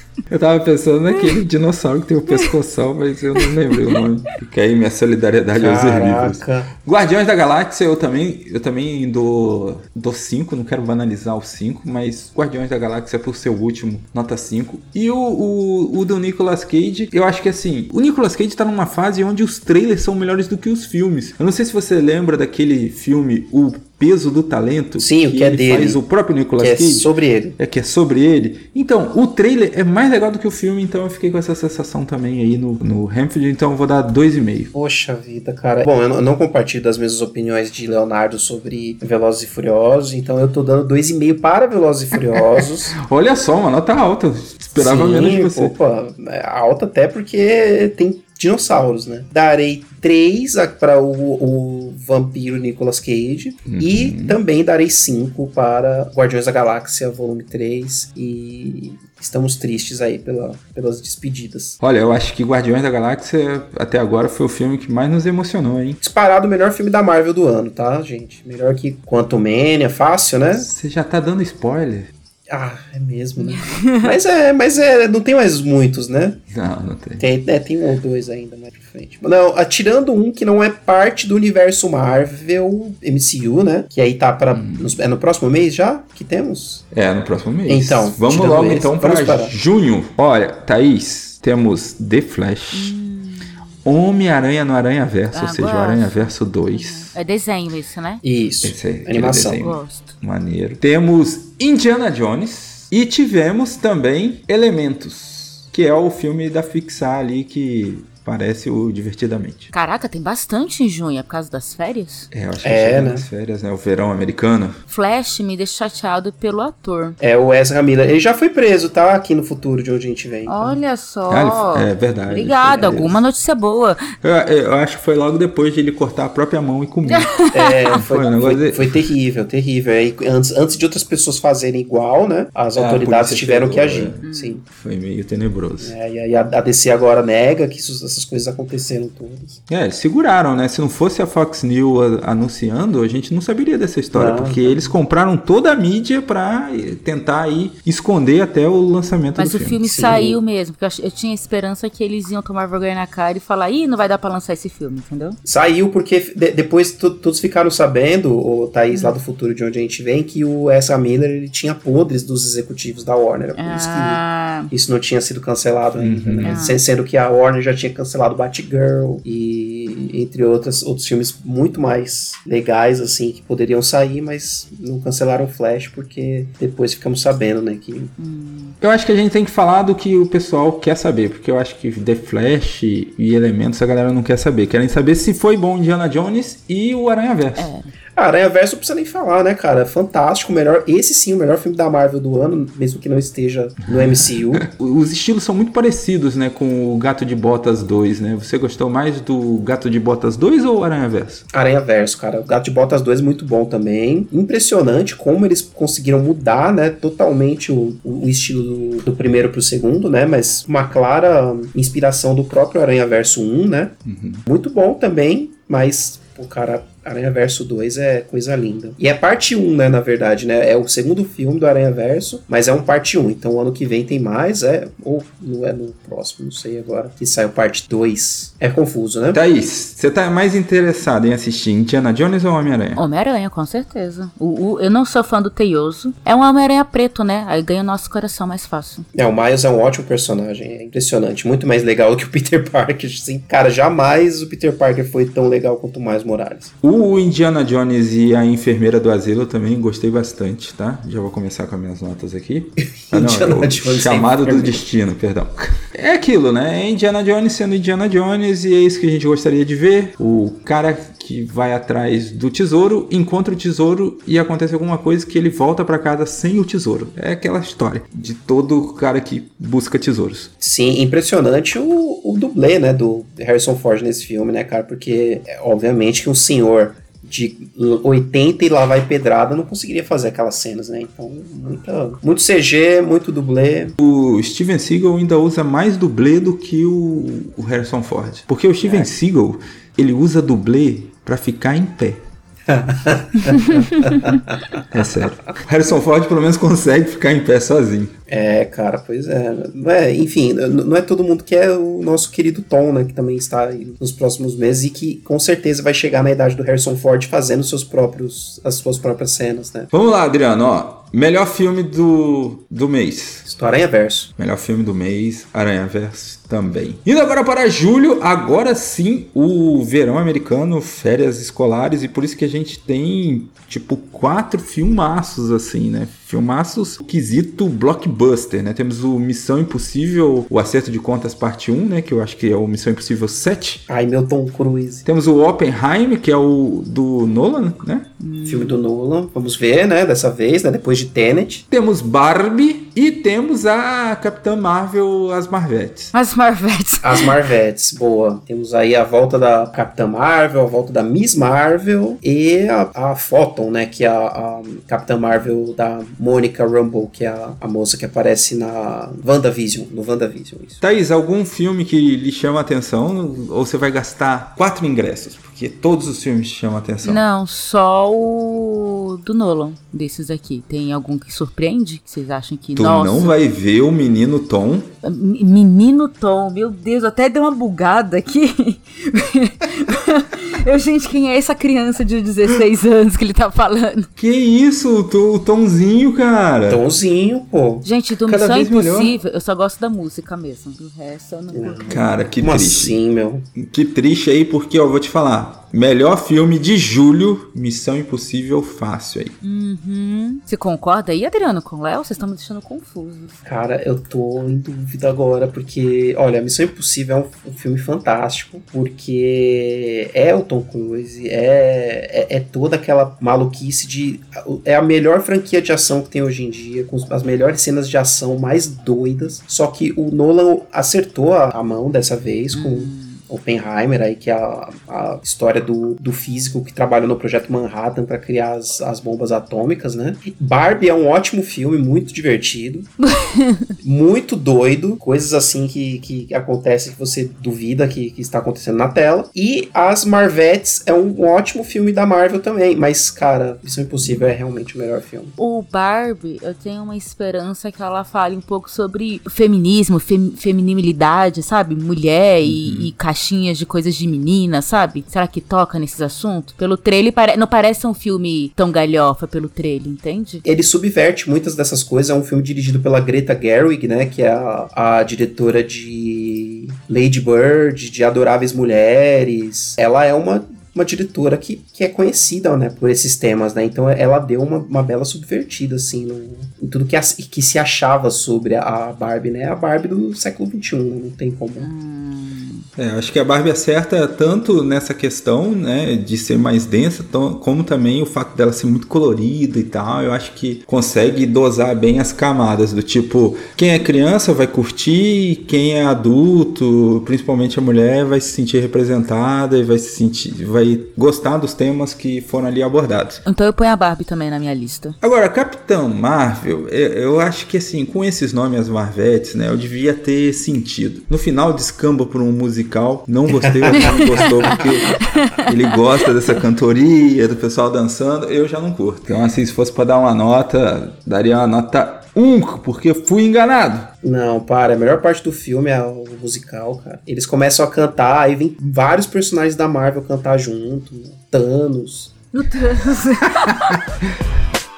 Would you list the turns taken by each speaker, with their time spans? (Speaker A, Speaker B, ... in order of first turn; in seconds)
Speaker A: 0.3-34.7, 43.0-45.7, 53.7-54.4, 61.8-66.0, 70.6-72.1, 76.5-77.2, 84.5-84.9, 86.9-92.9, 93.8-97.1, 98.6-109.7, 112.3-114.8, 121.3-123.2, 124.2-127.3, 127.9-129.0, 132.7-135.9, 139.7-150.2, 166.0-166.6, 178.8-187.7, 193.9-201.4, 214.0-214.4, 229.3-233.0, 246.8-270.5, 284.0-292.2, 294.9-298.1, 309.9-313.4, 314.4-333.8, 335.1-338.1, 341.7-346.1, 360.8-367.2, 372.8-374.9, 384.2-386.8, 388.2-389.1, 391.9-393.0, 393.6-399.4, 452.4-452.9, 482.8-503.2, 505.0-523.9
Speaker B: 3.4-4.0, 73.4-74.1, 92.7-93.5, 95.3-98.2, 99.5-100.1, 109.7-112.3, 114.9-117.2, 120.5-124.1, 127.0-128.0, 134.2-134.6, 149.3-155.4, 158.9-159.2, 163.6-164.7, 166.4-166.8, 178.2-178.8, 187.6-187.9, 232.9-239.0, 293.5-294.4, 338.2-338.8, 346.1-347.4, 367.0-373.4, 375.0-384.1, 387.8-392.0, 399.4-403.3, 422.5-423.2, 433.0-433.7, 445.4-460.4, 481.6-482.6, 503.2-505.0, 513.7-515.8, 532.3-533.8
Speaker C: 5.6-6.7, 25.0-26.0, 26.6-27.6, 34.7-43.0, 44.7-61.8, 66.0-70.7, 72.5-76.4, 77.2-86.8, 87.7-89.5, 98.2-99.6, 112.6-113.2, 117.2-120.8, 127.5-134.6, 135.8-139.6, 144.1-144.9, 149.8-150.4, 155.4-178.1, 188.2-194.7, 201.5-229.4, 239.1-246.7, 253.1-254.8, 270.6-283.9, 288.8-289.1, 292.7-294.9, 298.3-309.9, 313.4-314.3, 333.9-335.1, 338.5-341.6, 347.0-360.8, 386.7-387.9, 391.5-393.5, 403.4-432.9, 433.8-445.4, 460.4-481.7, 513.4-514.7, 524.0-532.1